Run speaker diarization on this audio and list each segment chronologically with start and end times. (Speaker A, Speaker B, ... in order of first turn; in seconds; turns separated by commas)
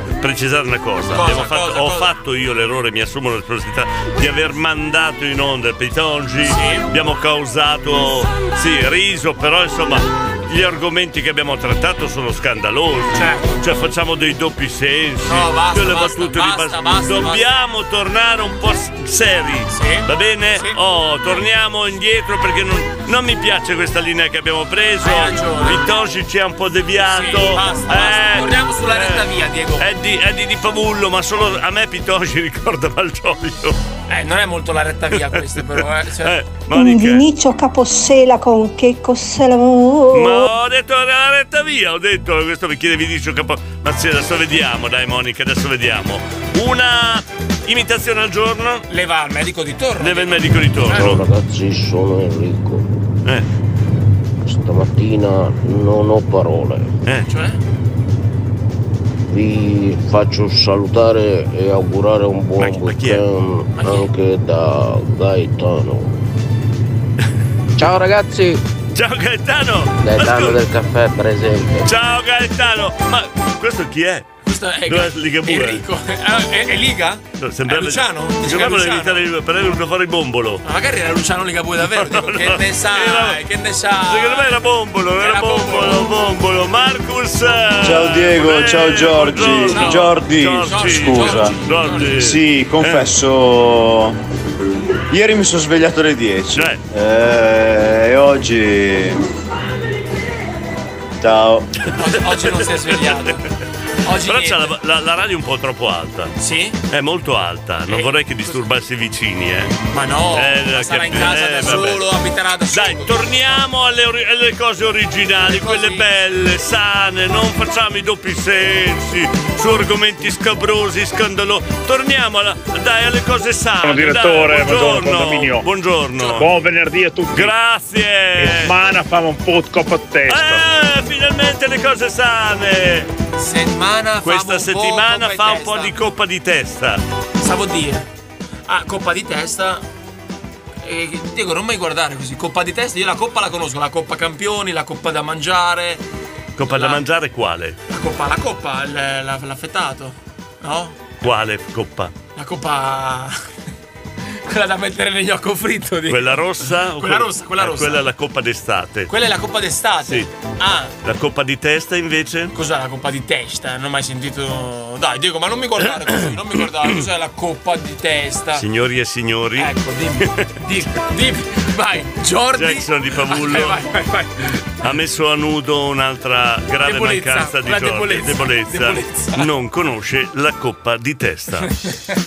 Speaker A: 0.2-29.3, Speaker B: 1.1-2.1, Speaker B: 6.4-6.9, Speaker B: 13.1-13.6, Speaker B: 15.3-17.4, Speaker B: 19.7-20.8, Speaker B: 25.0-25.9, Speaker B: 27.0-29.9, Speaker A: 29.8-33.8, Speaker B: 34.1-36.4, Speaker A: 36.2-37.3, Speaker C: 36.7-40.5, Speaker A: 40.1-48.9, Speaker B: 48.9-51.2, Speaker A: 50.0-51.2, Speaker D: 50.9-53.0, Speaker D: 54.4-57.0, Speaker B: 57.3-57.6, Speaker D: 59.3-66.2, Speaker A: 62.6-63.2, Speaker B: 63.8-64.1, Speaker D: 67.8-68.6, Speaker A: 68.9-70.6, Speaker D: 70.0-71.9, Speaker A: 71.8-74.3, Speaker B: 74.5-79.2, Speaker A: 74.9-75.8, Speaker A: 77.4-80.6, Speaker B: 80.7-84.6, Speaker A: 82.0-83.4, Speaker A: 84.1-93.1, Speaker B: 85.2-86.2, Speaker E: 87.8-91.5, Speaker B: 89.4-92.3, Speaker E: 92.2-94.2, Speaker E: 95.1-99.2, Speaker A: 96.5-96.8, Speaker E: 101.2-101.7, Speaker B: 102.0-103.4, Speaker B: 104.0-104.8, Speaker A: 104.2-106.3, Speaker B: 106.4-106.8, Speaker A: 106.9-109.8, Speaker B: 107.9-108.6, Speaker B: 109.9-113.2, Speaker A: 110.3-112.1, Speaker A: 112.7-126.5, Speaker B: 115.5-116.1, Speaker F: 123.8-125.6, Speaker B: 126.2-126.4, Speaker F: 126.4-127.5, Speaker A: 127.3-128.8, Speaker F: 128.4-130.6, Speaker A: 130.3-133.1, Speaker B: 133.4-135.9, Speaker A: 134.2-137.0, Speaker B: 137.4-138.1, Speaker B: 138.7-139.8, Speaker B: 140.8-146.0, Speaker A: 146.6-147.8, Speaker B: 146.7-147.0, Speaker B: 147.9-151.2, Speaker A: 151.2-152.2, Speaker B: 152.4-153.4, Speaker B: 154.5-158.1, Speaker A: 156.1-159.1, Speaker B: 159.1-160.9, Speaker A: 161.0-162.5, Speaker B: 162.6-168.7, Speaker A: 168.6-170.4, Speaker B: 169.6-174.6, Speaker A: 172.6-173.8, Speaker A: 174.8-181.7, Speaker B: 176.8-179.5